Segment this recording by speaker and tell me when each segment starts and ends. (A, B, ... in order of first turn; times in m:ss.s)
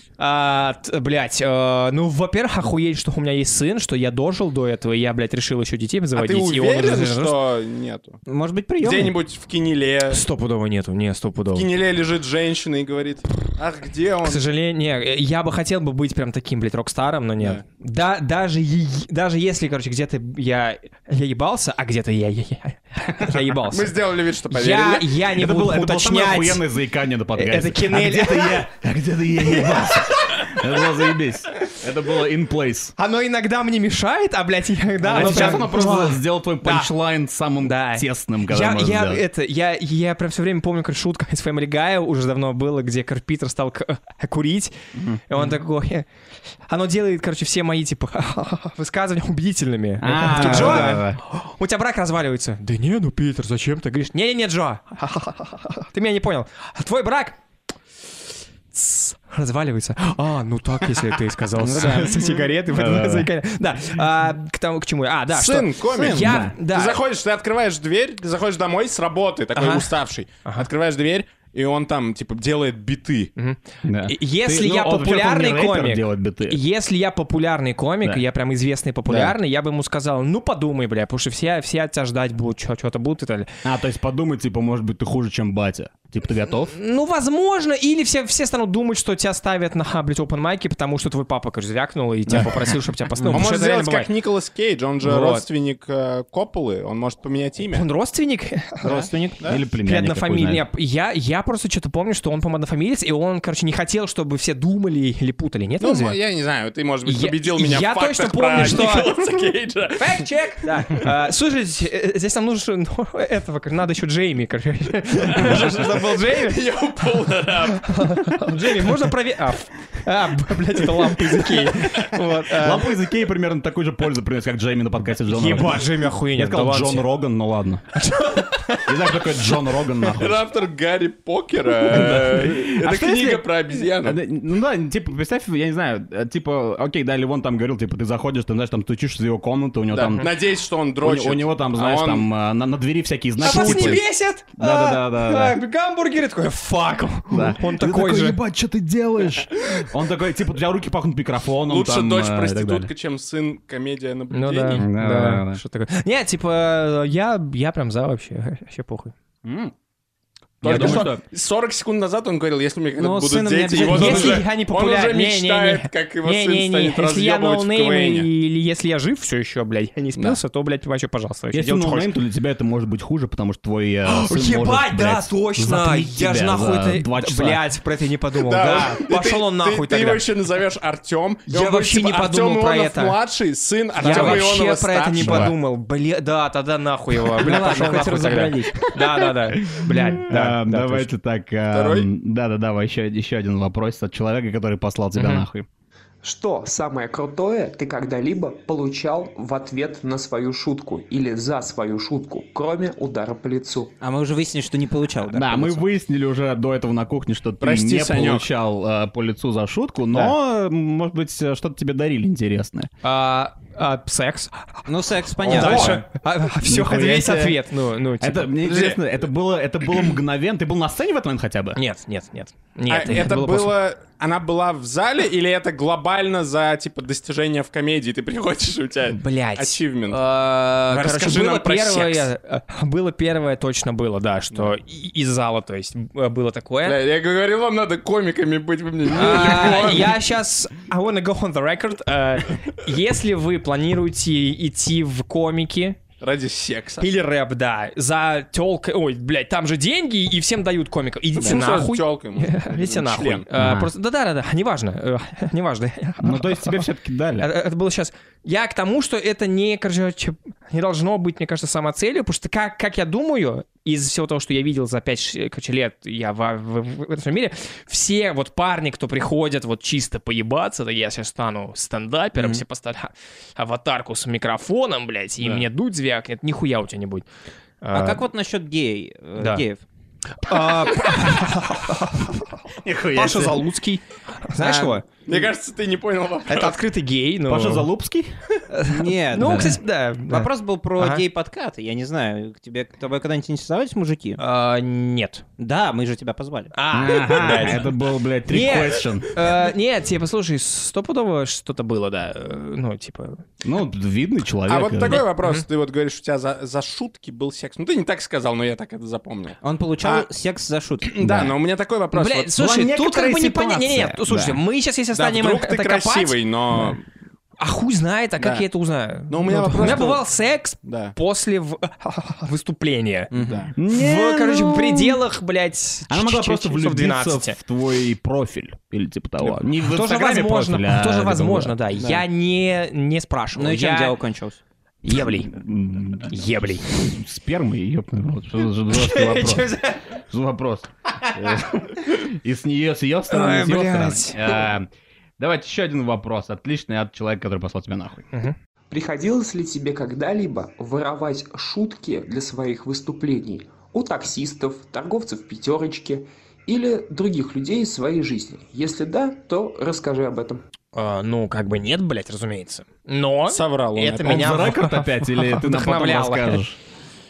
0:00.2-0:07.4 A
0:06.1-0:08.2 B
0:08.3-0:09.2 C
0:08.8-0:10.2 B
0:10.1-0:11.7 A
0:11.5-0:14.4 B
0:14.2-0:24.0 A
0:23.6-0:25.2 B
0:24.5-0:26.6 A
0:25.3-0:32.9 D
0:27.3-0:28.7 A
0:29.4-0:30.6 A
0:33.0-0:36.9 A
0:35.0-0:39.2 D
0:35.3-0:35.6 C
0:37.6-0:44.7 A
0:44.9-0:45.5 D
0:45.3-0:46.0 A
0:46.6-0:57.4 A
0:50.0-0:51.2 D
0:58.7-1:07.0 A
1:01.6-1:02.2 C
1:01.7-1:02.0 D
1:02.7-1:03.3 D
1:05.3-1:13.3 B
1:06.0-1:06.6 D
1:09.5-1:09.9 A
1:13.4-1:23.5 A
1:13.8-1:16.6 D
1:19.1-1:19.4 D
1:23.6-1:26.7 D
1:26.7-1:34.1 A
1:32.3-1:32.6 D
1:33.3-1:37.8 B
1:35.0-1:35.4 A
1:37.7-1:39.1 A
1:38.8-1:39.4 C
1:39.4-1:40.6 D
1:39.8-1:46.2 A
1:45.8-1:50.3 B
1:47.0-1:49.2 A
1:50.0-1:56.7 A
1:55.3-1:58.8 B
1:57.7-2:03.0 A
2:02.5-2:07.9 D
2:05.3-2:07.1 A
2:07.9-2:09.4 A
2:08.8-2:10.4 D
2:10.1-2:14.2 B
2:11.8-2:20.3 D
2:19.9-2:22.3 B
2:21.0-2:24.0 D
2:23.4-2:24.0 B
2:23.4-2:28.4 A
2:24.6-2:25.6 D
2:27.3-2:32.9 D
2:31.6-2:34.8 B
2:34.3-2:39.1 A
2:34.7-2:35.6 D
2:39.4-2:39.7 D
2:40.6-2:48.3 B
2:40.6-2:41.2 D
2:40.6-2:41.1 A
2:43.0-2:44.4 C
2:43.8-2:52.1 A
2:51.5-2:57.6 D
2:54.0-3:00.2 A
2:58.4-3:05.5 B
3:01.5-3:03.2 A
3:03.9-3:11.1 A
3:04.0-3:04.4 C
3:04.0-3:04.4 D
3:05.2-3:05.5 D
3:07.4-3:09.0 C
3:09.0-3:15.7 D
3:11.7-3:12.1 B
3:15.1-3:15.4 A
3:16.2-3:23.9 E
3:24.0-3:25.8 C
3:25.3-3:32.9 D
3:27.6-3:28.4 B
3:33.0-3:34.8 A
3:34.8-3:36.0 C
3:35.4-3:38.5 A
3:35.4-3:36.0 D
3:36.6-3:37.6 D
3:38.2-3:41.8 D
3:38.6-3:39.0 B
3:41.8-3:43.7 A
3:42.9-3:50.2 B
3:49.1-3:57.0 A
3:50.9-3:52.3 B
3:56.8-4:00.2 B
3:59.1-4:06.0 A
4:06.2-4:07.1 B
4:07.0-4:16.9 A
4:11.4-4:13.4 B
4:13.5-4:13.9 D
4:16.2-4:17.5 D
4:17.4-4:37.2 A
4:32.4-4:32.6 C
4:37.8-4:38.2 A
4:37.9-4:39.8 C
4:39.4-4:39.6 A
4:40.4-4:42.6 A
4:42.8-4:43.6 D
4:43.1-4:45.2 A
4:44.6-4:44.9 C
4:45.2-4:46.8 B
4:46.5-4:47.9 A
4:47.5-4:48.3 D
4:48.7-4:51.2 A
4:48.8-4:49.8 C
4:49.4-4:49.8 D
4:50.3-4:54.4 C
4:54.4-4:55.4 A
4:55.6-4:56.7 C
4:56.7-4:57.9 A
4:56.9-4:59.4 D
4:58.5-5:03.4 A
5:03.6-5:05.2 D
5:04.7-5:10.3 B
5:05.0-5:05.6 A
5:09.6-5:11.1 C
5:11.0-5:12.5 B
5:11.2-5:11.5 D
5:12.1-5:16.9 A
5:12.6-5:14.6 D
5:15.1-5:17.0 B
5:17.6-5:23.3 A
5:18.4-5:18.6 B
5:19.3-5:20.2 B
5:20.8-5:21.1 B
5:23.3-5:23.7 C
5:23.4-5:23.7 B
5:23.7-5:25.2 D
5:23.9-5:27.6 A
5:26.1-5:31.8 D
5:29.4-5:34.2 A
5:33.6-5:34.6 C
5:35.0-5:35.5 A
5:35.1-5:44.9 D
5:36.3-5:37.0 A
5:38.9-5:40.0 A
5:43.3-5:44.7 A
5:45.4-5:48.2 D
5:48.9-6:00.6 E
6:00.9-6:06.6 A
6:03.5-6:04.4 B
6:04.2-6:06.8 D